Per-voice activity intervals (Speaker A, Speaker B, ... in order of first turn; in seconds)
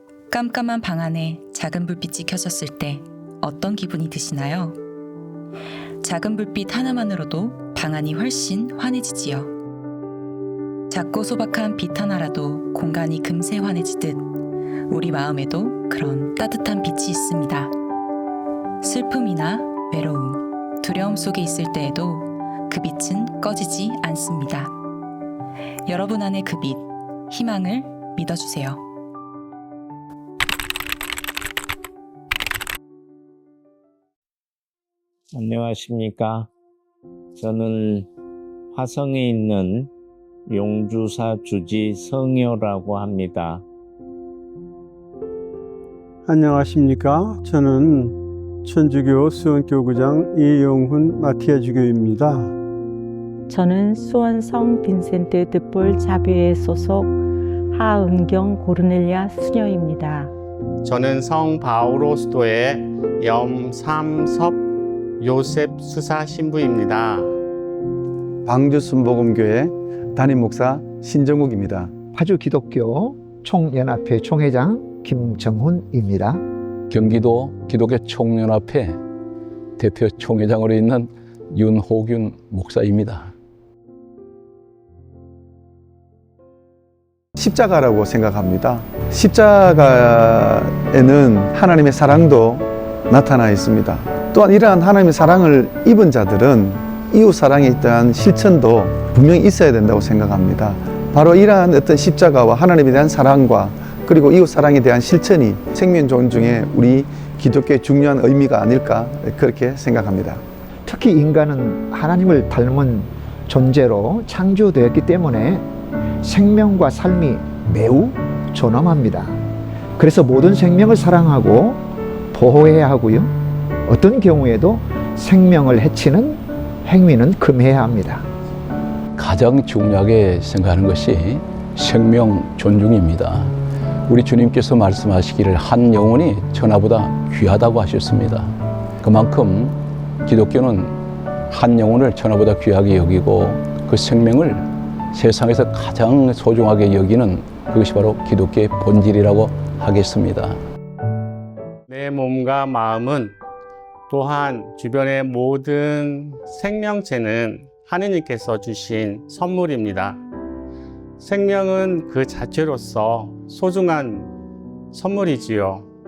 Speaker A: 0.3-4.8, 6.0-9.5, 10.9-14.3, 14.9-17.7, 18.8-24.8, 25.9-28.8
Speaker B: 35.3-36.5, 37.4-38.1, 38.7-39.9, 40.5-43.6
Speaker C: 46.3-48.1, 48.7-52.4
Speaker D: 53.5-57.2, 57.7-60.3
Speaker E: 60.8-64.6, 65.2-67.3, 151.9-153.4, 154.1-160.2, 161.2-164.3, 164.9-165.9
Speaker F: 68.5-71.9, 87.4-110.4
Speaker G: 72.2-76.4, 110.9-115.7, 116.2-119.4, 120.0-121.8, 122.3-123.3, 123.9-128.3
Speaker H: 76.9-79.0, 79.8-83.3, 129.2-133.5, 134.1-138.5, 139.0-139.7, 140.3-141.0, 141.5-150.6